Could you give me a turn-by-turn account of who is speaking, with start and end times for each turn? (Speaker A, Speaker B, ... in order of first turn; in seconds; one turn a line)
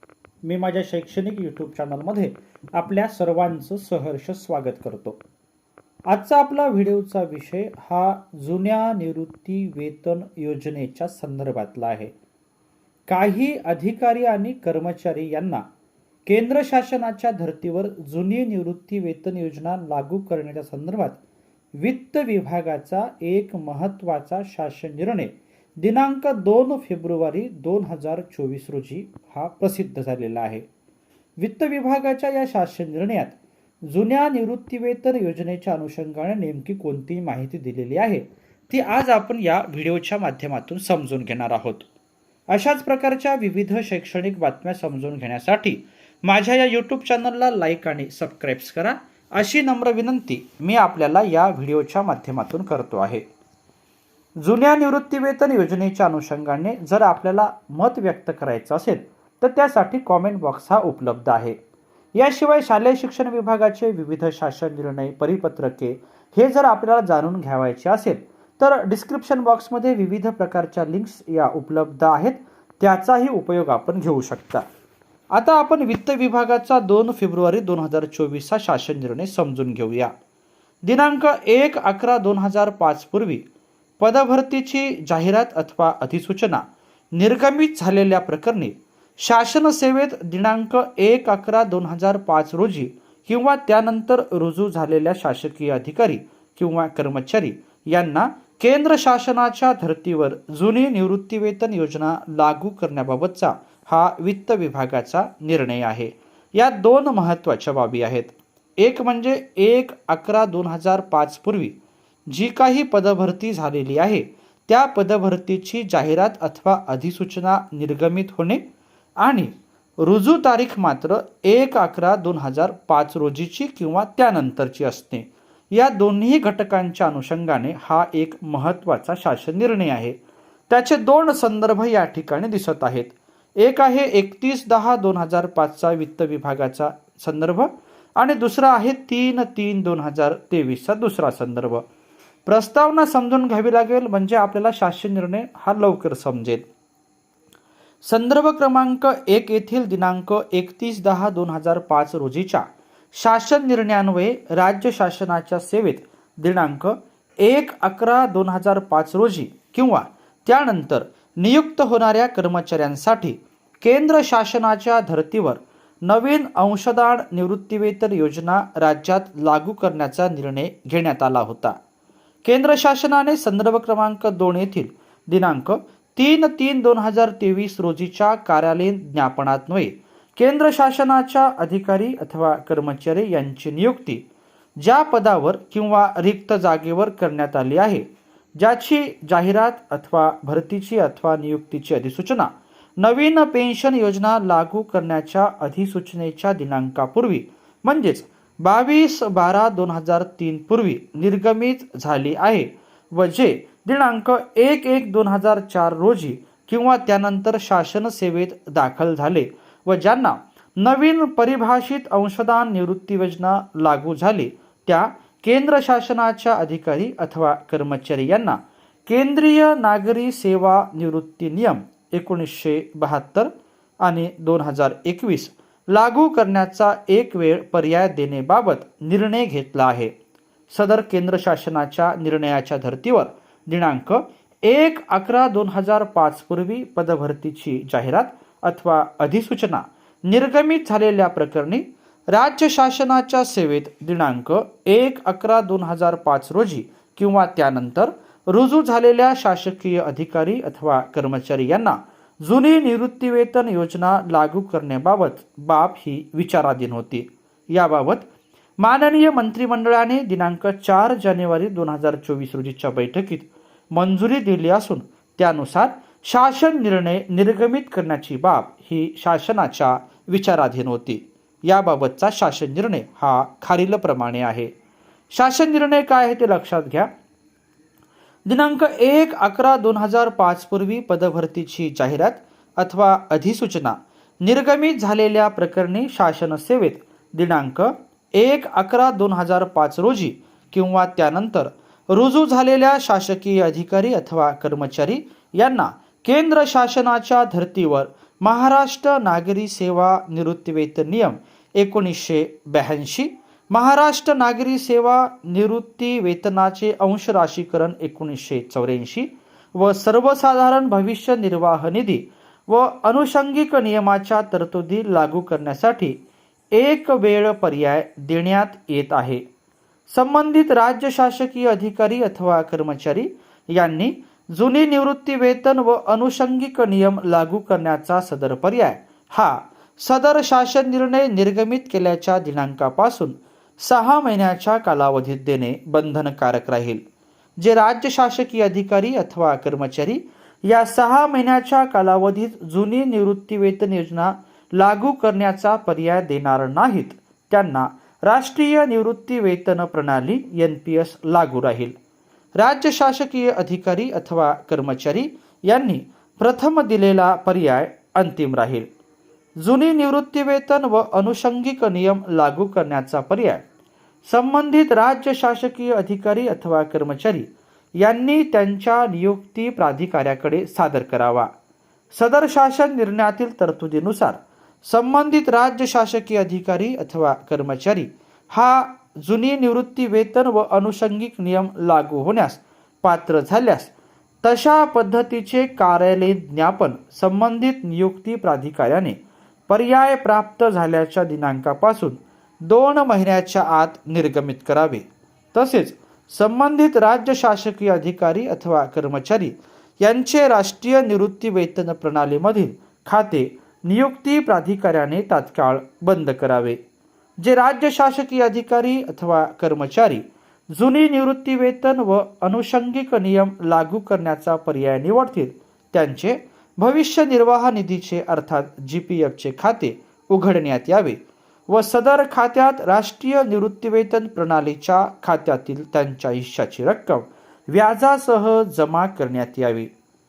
Speaker A: 0.5-5.2
Speaker A: 6.1-12.1
Speaker A: 13.1-15.7
Speaker A: 16.3-21.2
Speaker A: 21.8-30.7
Speaker A: 31.4-41.9
Speaker A: 42.5-53.3
Speaker A: 54.4-61.6
Speaker A: 62.1-74.7
Speaker A: 75.3-80.1
Speaker A: 80.8-83.4
Speaker A: 84.0-111.8
Speaker A: 112.3-118.6
Speaker A: 119.2-130.2
Speaker A: 130.7-141.8
Speaker A: 142.5-146.7
Speaker A: 148.0-171.8
Speaker A: 172.4-184.3
Speaker A: 184.8-230.1
Speaker A: 230.7-258.3
Speaker A: 258.8-274.7
Speaker A: 275.3-277.1
Speaker A: 278.5-316.2
Speaker A: 316.7-319.4
Speaker A: 320.1-337.0
Speaker A: 337.6-351.9
Speaker A: 352.6-358.9
Speaker A: 359.6-363.6
Speaker A: 364.3-371.5
Speaker A: 372.1-383.9
Speaker A: 384.4-389.2
Speaker A: 389.7-406.8
Speaker A: 407.4-429.9